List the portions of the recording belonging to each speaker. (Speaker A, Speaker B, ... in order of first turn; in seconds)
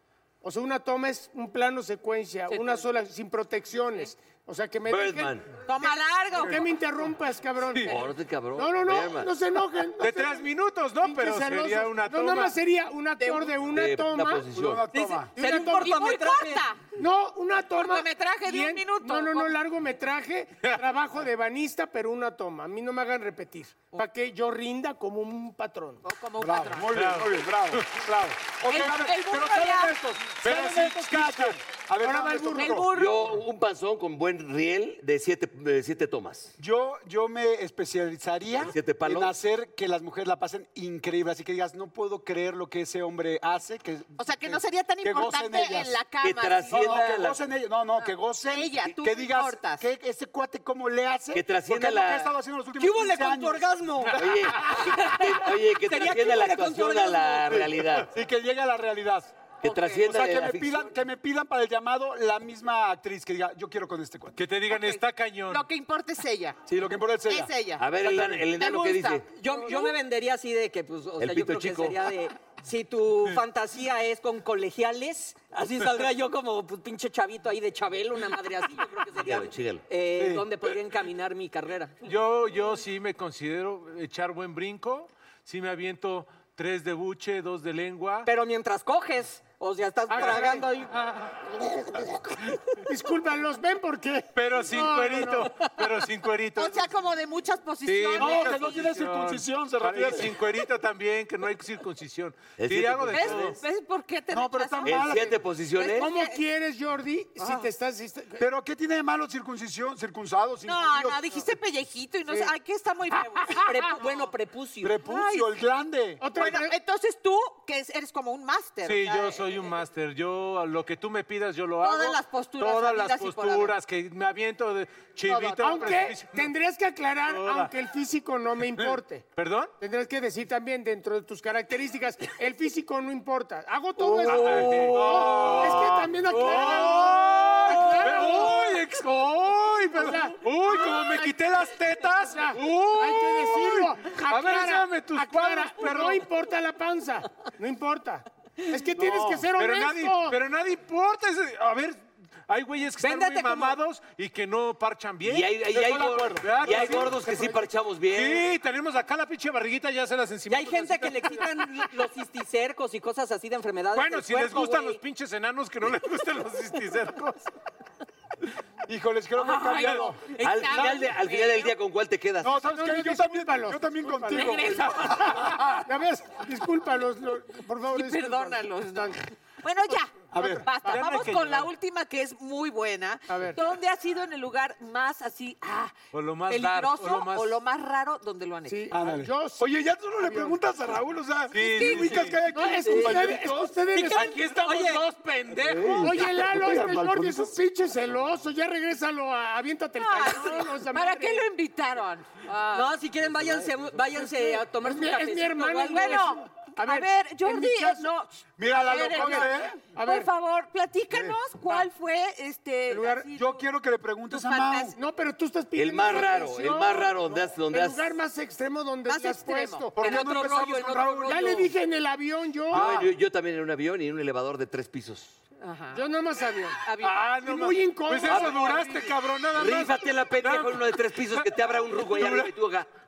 Speaker A: 0.4-8.0, 8.5-10.5, 11.0-14.5, 15.3-16.2, 16.9-26.0, 32.0-32.9, 90.1-90.7, 92.8-95.5, 106.0-108.4, 116.2-116.8, 125.6-129.3, 129.8-138.7, 139.9-141.4, 142.2-150.4, 172.7-179.2, 180.3-181.0, 183.3-183.6, 188.7-190.6, 192.5-194.4, 196.0-201.5, 204.2-208.1, 209.1-210.3, 212.9-213.3, 215.0-220.0, 221.3-222.9, 225.9-226.8, 227.4-229.1
Speaker B: 2.5-2.8, 5.7-6.7, 15.4-16.8, 17.8-19.6, 26.0-27.2, 28.6-30.0, 32.5-33.4, 44.2-47.1, 48.0-49.9, 54.7-57.3, 59.7-60.0, 64.7-66.6, 67.3-67.8, 68.6-70.0, 96.6-98.9, 103.1-106.4, 107.4-107.7, 110.6-114.3, 115.0-115.6, 116.3-119.5, 121.8-123.7, 125.3-125.9, 169.4-171.8, 174.3-175.5, 177.9-186.0, 186.5-188.9, 191.6-192.3, 194.0-195.0, 200.0-202.9, 205.8-213.6, 214.3-215.0, 219.1-221.0, 225.6-226.0, 226.8-227.2
Speaker C: 4.9-5.5, 7.8-9.3, 13.6-14.9, 32.9-36.5, 38.6-39.3, 46.2-47.4, 51.3-52.3, 54.1-58.1, 59.6-60.9, 67.8-69.3, 71.2-72.1, 79.2-79.9, 102.6-103.6, 104.8-106.1, 155.2-158.5, 170.4-172.6, 215.8-218.2, 222.7-225.4, 228.3-228.7, 229.5-232.9
Speaker D: 10.0-12.6, 26.9-28.1, 30.4-31.6, 54.5-54.8, 64.4-65.6, 82.0-88.3, 90.2-90.6, 94.3-96.9, 97.8-103.6, 118.8-126.5, 127.3-127.7, 128.8-129.7, 134.0-146.2, 149.0-157.6, 158.1-161.9, 163.9-167.5, 180.8-181.7, 186.1-187.6, 191.5-192.4, 194.0-196.2, 227.0-231.5, 232.1-232.6
Speaker E: 14.5-15.3, 26.4-32.9, 36.6-46.0, 46.7-53.7, 58.1-59.4, 59.9-64.5, 66.7-67.5, 80.2-80.5, 98.2-100.4, 104.3-105.4, 108.4-111.4, 114.8-116.4, 134.9-135.8, 149.0-149.5, 155.8-157.4, 168.9-170.2, 172.4-175.6, 180.3-180.7, 188.9-193.8, 195.6-197.6, 208.6-209.8, 211.1-211.4, 213.3-215.0, 220.0-221.7, 222.7-223.1
Speaker F: 14.9-16.7, 52.8-54.2, 55.9-57.4, 68.5-82.1, 88.2-91.0, 113.5-114.9, 153.0-153.8, 160.5-165.0, 194.7-195.0, 202.7-206.4, 220.0-221.7